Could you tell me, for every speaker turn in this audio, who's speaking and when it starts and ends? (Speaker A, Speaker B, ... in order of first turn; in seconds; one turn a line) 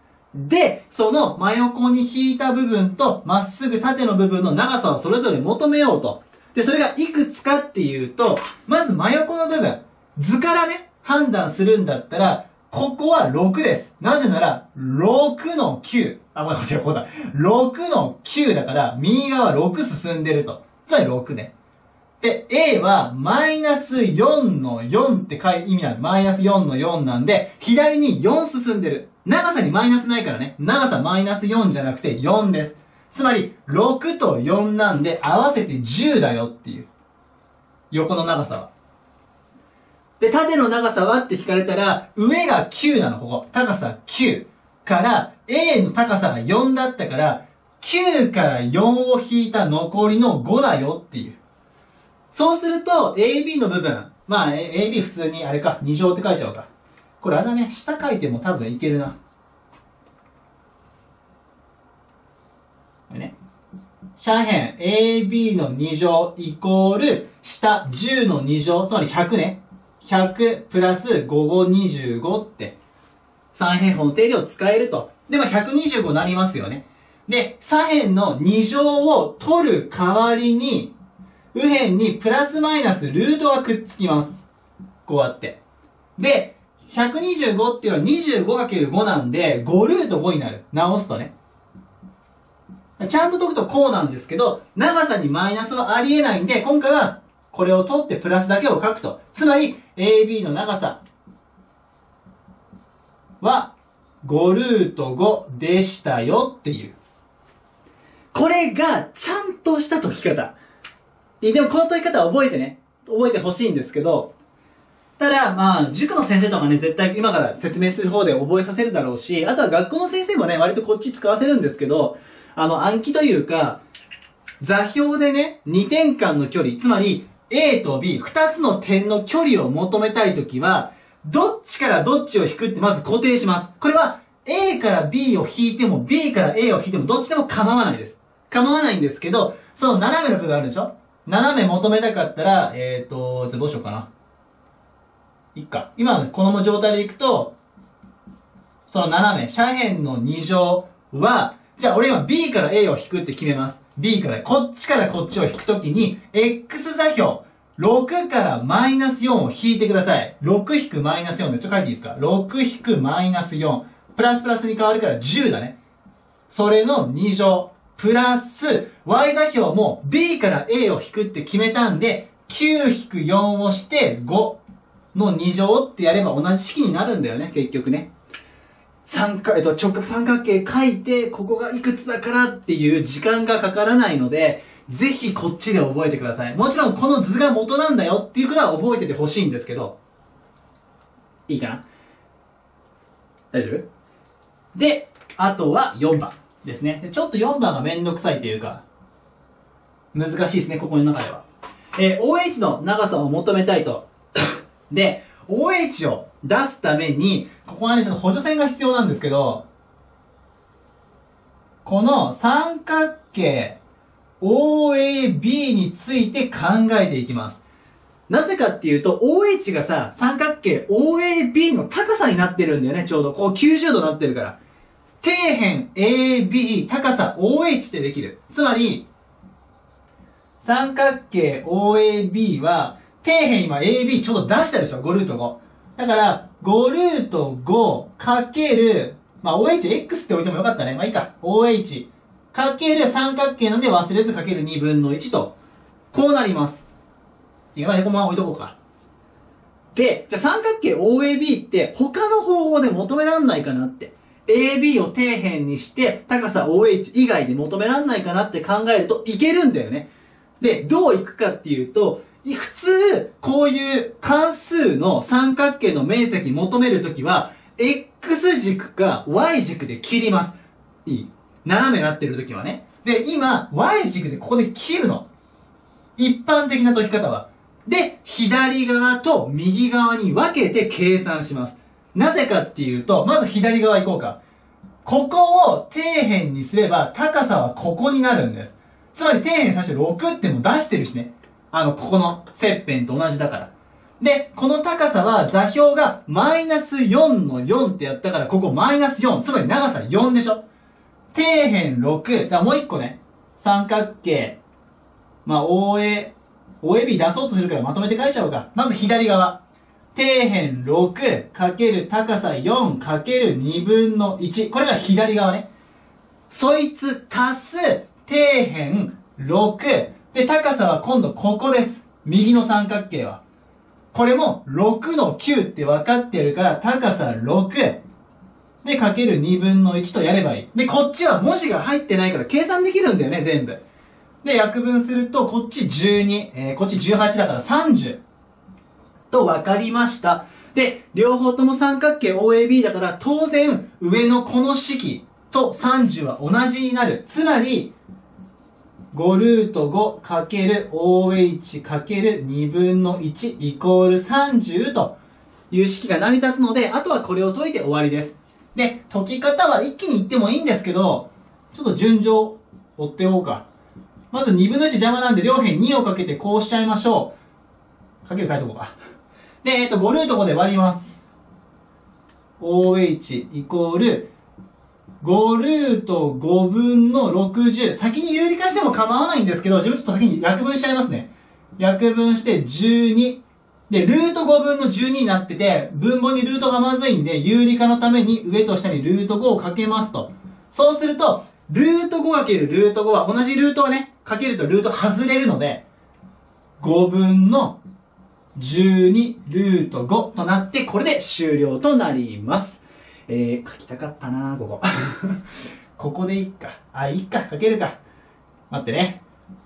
Speaker A: 0.3-21.5
Speaker A: 22.2-36.9
Speaker A: 37.9-38.7
Speaker A: 40.2-51.4
Speaker A: 52.3-56.7
Speaker A: 57.2-59.1
Speaker A: 64.2-72.8
Speaker A: 73.5-80.9
Speaker A: 81.5-84.5
Speaker A: 85.0-85.6
Speaker A: 86.2-91.3
Speaker A: 93.0-101.0
Speaker A: 103.4-103.7
Speaker A: 104.2-107.0
Speaker A: 108.3-110.5
Speaker A: 111.4-114.3
Speaker A: 115.2-123.8
Speaker A: 124.6-144.1
Speaker A: 145.5-147.5
Speaker A: 148.9-165.8
Speaker A: 166.5-174.6
Speaker A: 175.1-178.1
Speaker A: 179.1-189.9
Speaker A: 191.5-191.8
Speaker A: 193.5-193.8
Speaker A: 194.7-198.8
Speaker A: 200.1-201.4
Speaker A: 201.9-209.6
Speaker A: 211.8-213.8
Speaker A: 214.4-217.6
Speaker A: 218.3-224.6
Speaker A: 225.2-229.1
Speaker A: 230.6-245.5
Speaker A: 246.1-246.9
Speaker A: 247.7-248.8
Speaker A: 249.9-275.2
Speaker A: 276.2-284.4
Speaker A: 285.0-300.6
Speaker A: 301.3-304.6
Speaker A: 305.4-309.6
Speaker A: 310.1-315.7
Speaker A: 316.5-323.4
Speaker A: 324.1-328.0
Speaker A: 328.8-333.8
Speaker A: 334.4-338.2
Speaker A: 339.3-347.9
Speaker A: 349.1-355.1
Speaker A: 355.7-363.6
Speaker A: 364.3-367.3
Speaker A: 368.2-368.9
Speaker A: 369.6-371.2
Speaker A: 372.6-374.3
Speaker A: 375.2-395.8
Speaker A: 396.8-397.8
Speaker A: 398.5-405.4
Speaker A: 406.0-408.0
Speaker A: 408.7-409.2